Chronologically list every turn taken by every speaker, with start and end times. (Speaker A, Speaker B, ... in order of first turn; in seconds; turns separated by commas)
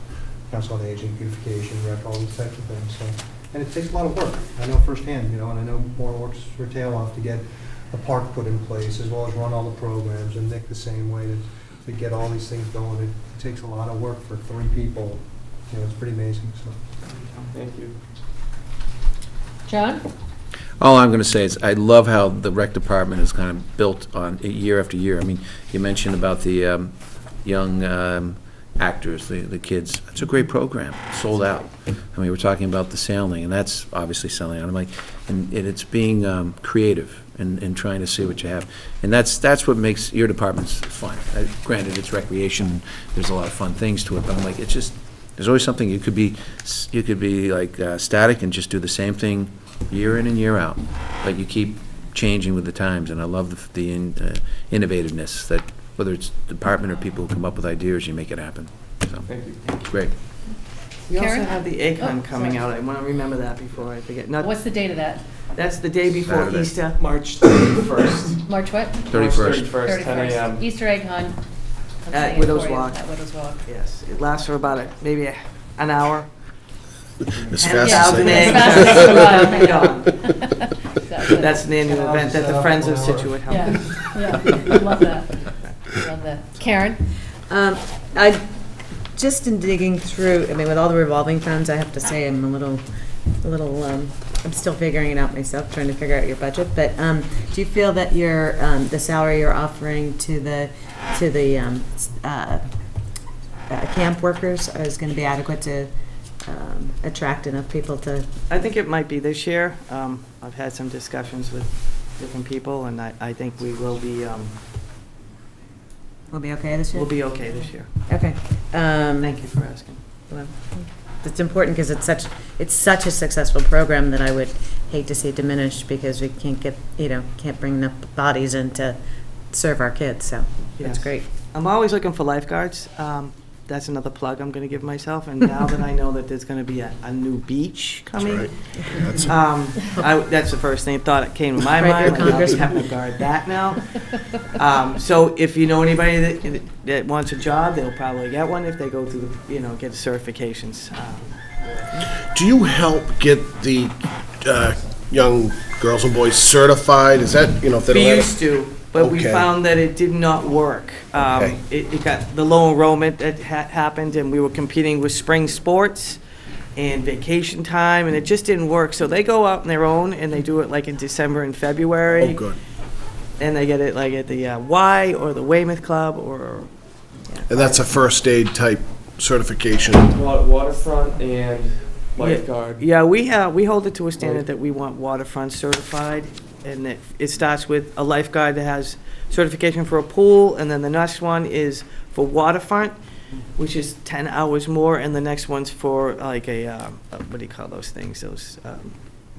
Speaker A: 0.5-16.8, Speaker B: 17.5-17.9, Speaker C: 19.6-20.0, Speaker D: 20.8-59.3, Speaker B: 59.3-59.6, Speaker D: 59.8-60.1, Speaker E: 61.1-64.6, Speaker C: 61.1-62.6, Speaker C: 64.4-65.2, Speaker E: 65.5-67.0, Speaker D: 66.2-66.7, Speaker B: 67.0-68.4, Speaker C: 68.4-71.4, Speaker D: 69.1-69.7, Speaker B: 69.2-70.6, Speaker C: 72.0-73.6, Speaker E: 72.1-73.0, Speaker E: 73.7-76.3, Speaker F: 77.5-79.4, Speaker E: 77.6-80.2, Speaker C: 77.8-81.7, Speaker E: 81.3-83.8, Speaker A: 81.8-84.6, Speaker C: 83.5-87.1, Speaker G: 87.5-88.4, Speaker G: 89.1-92.8, Speaker G: 93.4-102.6, Speaker G: 103.7-105.9, Speaker G: 106.5-108.3, Speaker E: 108.5-114.5, Speaker G: 116.3-117.3, Speaker E: 116.9-117.9, Speaker G: 118.1-119.4, Speaker E: 119.2-120.0, Speaker G: 120.3-129.0, Speaker G: 129.5-131.2, Speaker E: 130.8-138.5, Speaker F: 138.1-139.3, Speaker E: 139.2-143.9, Speaker G: 141.7-142.7, Speaker E: 144.5-152.0, Speaker F: 152.3-159.5, Speaker E: 157.8-166.2, Speaker E: 166.8-172.4, Speaker F: 172.1-172.6, Speaker E: 173.4-176.7, Speaker E: 177.2-177.8, Speaker F: 177.5-180.1, Speaker B: 180.1-182.8, Speaker E: 182.2-193.0, Speaker B: 184.2-184.4, Speaker E: 193.6-199.0